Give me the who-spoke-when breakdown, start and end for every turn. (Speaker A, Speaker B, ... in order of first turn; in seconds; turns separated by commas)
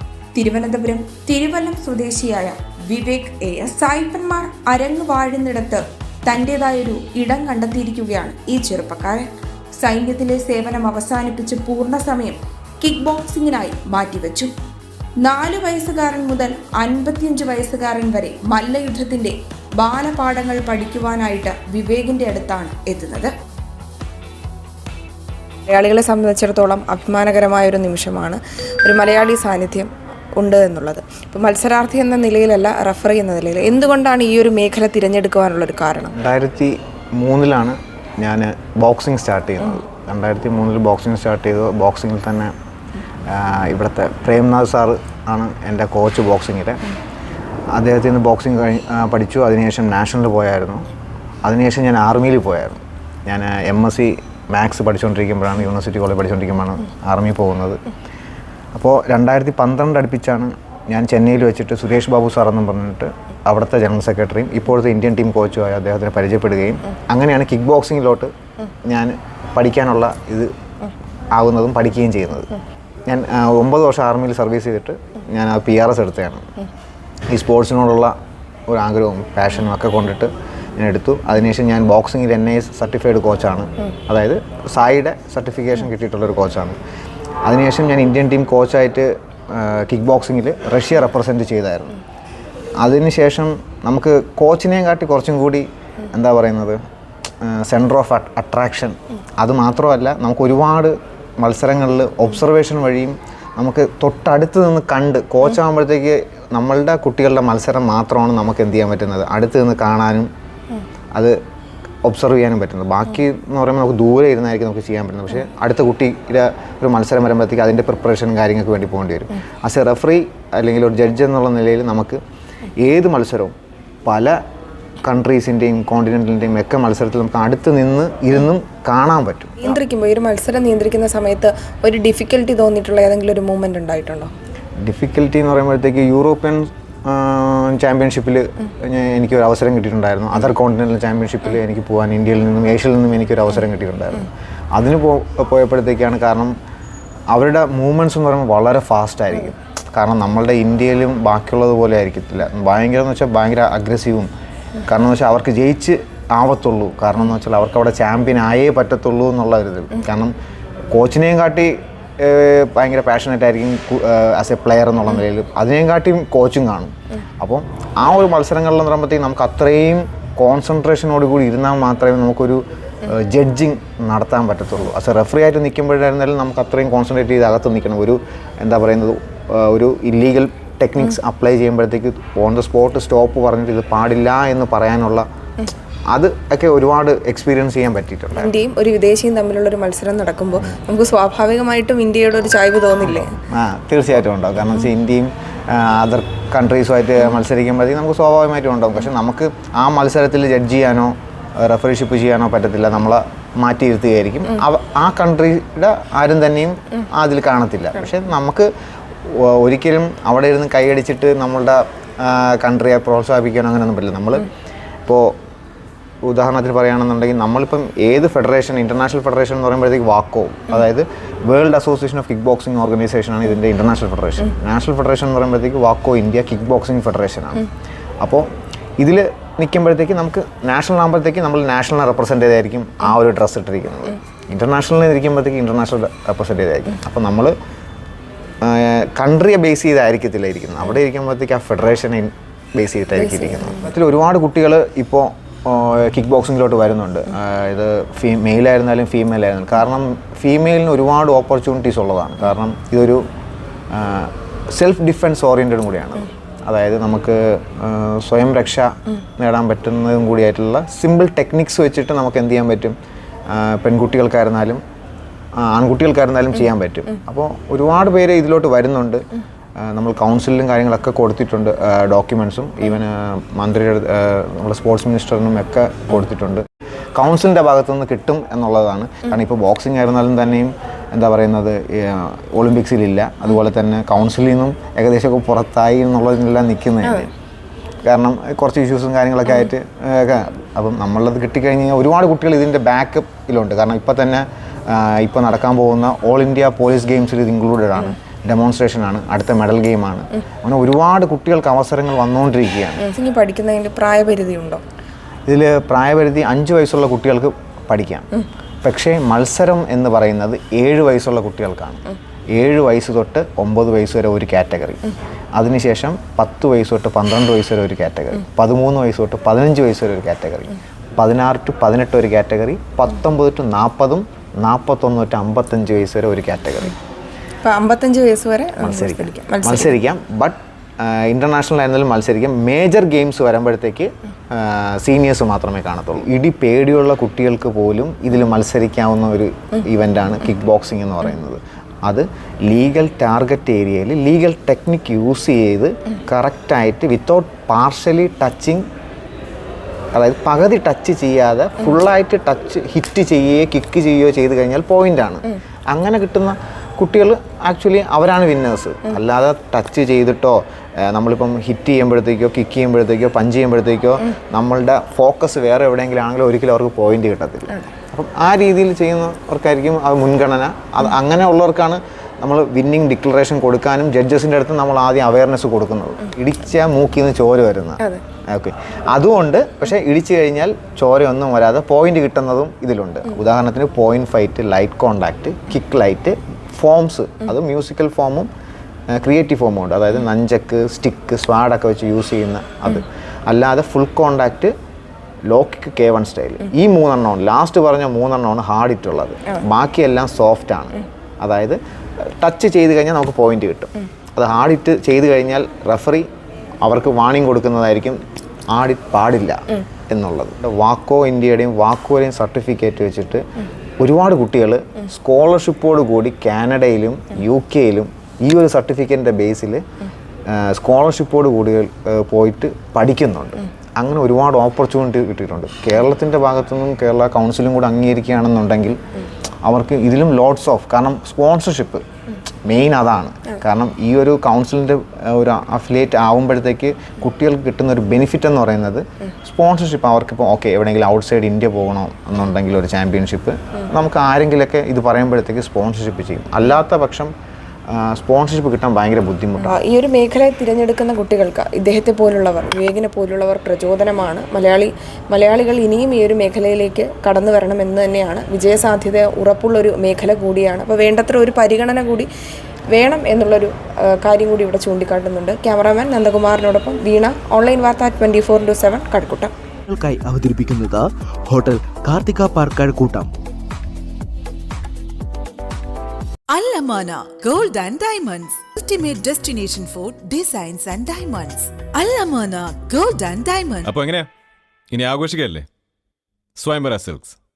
Speaker A: 0.3-14.5, Speaker A: 15.2-23.3, Speaker B: 25.7-28.3, Speaker A: 27.9-28.3, Speaker B: 28.9-29.9, Speaker A: 29.0-29.7, Speaker B: 30.4-36.1, Speaker A: 31.1-32.1, Speaker C: 36.1-42.5, Speaker C: 43.3-46.9, Speaker C: 47.7-50.8, Speaker C: 51.4-57.8, Speaker C: 58.7-68.3, Speaker C: 68.8-70.5, Speaker C: 71.3-72.5, Speaker C: 73.1-76.6, Speaker C: 77.3-78.2, Speaker C: 78.7-86.8, Speaker C: 87.4-92.0, Speaker C: 92.8-96.8, Speaker C: 97.4-110.3, Speaker C: 112.0-122.2, Speaker C: 122.8-123.5, Speaker C: 124.0-124.3, Speaker C: 125.0-129.8, Speaker A: 129.8-130.3, Speaker B: 129.9-134.3, Speaker A: 131.0-131.3, Speaker C: 134.8-146.5, Speaker C: 147.3-154.3, Speaker C: 154.8-160.3, Speaker C: 160.9-185.2, Speaker C: 186.1-188.5, Speaker B: 188.5-193.0, Speaker C: 193.2-208.7, Speaker C: 209.2-214.5, Speaker C: 215.1-215.4, Speaker C: 216.2-227.7, Speaker C: 228.2-228.5, Speaker C: 229.0-237.5, Speaker C: 238.6-253.2, Speaker C: 253.9-262.9, Speaker C: 263.5-264.8, Speaker C: 265.6-269.3, Speaker C: 269.8-276.6, Speaker C: 277.1-287.3, Speaker C: 288.0-303.1, Speaker A: 303.2-303.7, Speaker B: 303.3-304.8, Speaker C: 305.5-308.3, Speaker C: 308.8-327.0, Speaker B: 327.6-329.9, Speaker C: 328.8-348.8, Speaker C: 350.1-388.5, Speaker C: 389.1-394.7, Speaker C: 395.5-406.2, Speaker C: 406.8-413.4, Speaker C: 414.0-419.8, Speaker C: 420.5-429.0, Speaker C: 429.6-432.0, Speaker C: 432.6-447.3, Speaker C: 447.9-449.8, Speaker B: 450.0-454.9, Speaker A: 450.2-450.7, Speaker A: 454.1-454.4, Speaker B: 455.5-462.2, Speaker A: 457.1-459.3, Speaker A: 459.9-462.1, Speaker B: 463.0-463.6, Speaker A: 463.1-463.7, Speaker A: 464.3-469.5, Speaker B: 464.3-468.8, Speaker D: 469.9-473.3, Speaker E: 476.5-483.9, Speaker F: 483.8-484.3, Speaker F: 484.9-485.7, Speaker F: 486.6-487.4